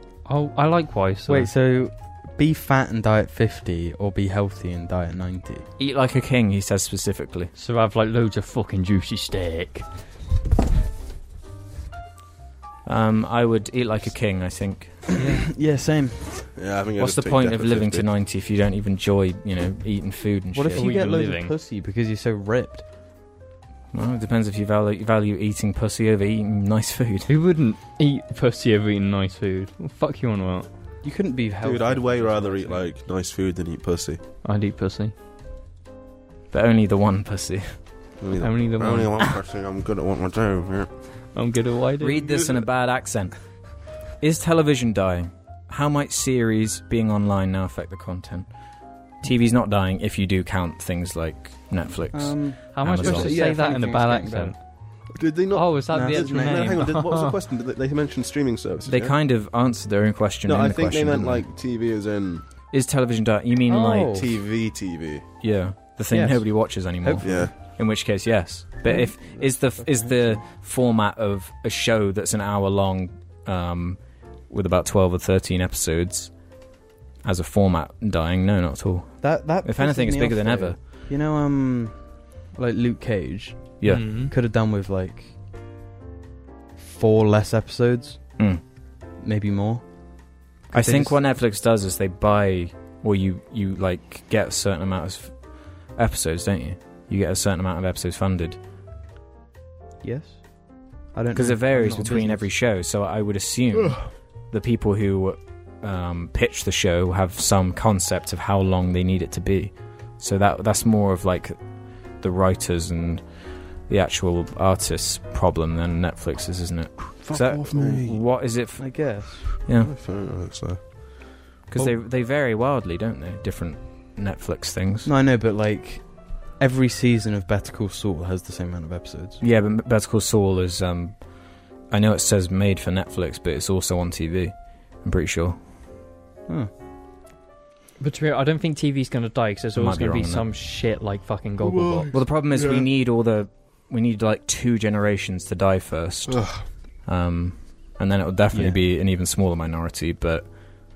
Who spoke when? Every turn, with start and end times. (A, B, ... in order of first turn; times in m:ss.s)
0:00.2-0:01.5 A
0:01.3-0:05.7 B
0:05.8-0:07.5 C
0:07.6-0:09.9 A
0:12.9-0:15.0 C
0:15.2-0:15.4 A
0:15.2-0:16.5 B
0:16.6-0:18.1 D
0:17.0-0:20.9 C
0:20.5-0:22.8 B
0:20.7-0:21.5 A
0:23.9-0:27.3 C
0:27.3-0:30.7 A
0:31.0-0:32.9 B
0:31.6-0:34.2 D
0:34.4-0:35.1 A
0:36.5-0:37.7 C
0:38.2-0:40.9 D
0:38.4-0:39.2 A
0:41.3-0:42.3 A
0:42.0-0:43.4 C
0:44.2-0:48.5 C
0:49.2-0:53.4 C
0:52.1-0:54.6 B
0:52.7-0:54.6 A
0:55.1-0:59.1 D
0:55.5-0:57.4 A
0:55.9-0:56.8 B
0:58.9-1:01.4 C
1:00.4-1:02.4 D
1:02.7-1:04.3 C
1:03.7-1:04.3 B
1:04.1-1:05.2 D
1:05.4-1:16.3 C
1:06.1-1:07.5 B
1:07.2-1:07.5 D
1:08.8-1:10.4 B
1:17.2-1:20.8 C
1:19.2-1:25.3 B
1:23.8-1:24.1 C
1:23.9-1:24.3 A
1:26.8-1:28.3 B
1:29.2-1:29.8 B
1:30.7-1:31.2 B
1:30.7-1:38.6 C
1:40.0-1:40.6 B
1:41.1-1:42.5 B
1:41.3-1:51.6 C
1:52.2-1:53.3 C
1:53.8-1:59.9 C
1:57.2-1:58.2 D
1:58.8-1:59.5 B
1:59.7-2:00.8 D
2:01.7-2:05.1 C
2:05.0-2:09.4 B
2:09.4-2:11.2 C
2:11.9-2:15.6 C
2:18.0-2:22.1 A
2:19.8-2:20.4 C
2:21.6-2:22.9 D
2:22.1-2:26.4 C
2:26.3-2:26.6 D
2:27.0-2:30.5 C
2:28.5-2:28.8 B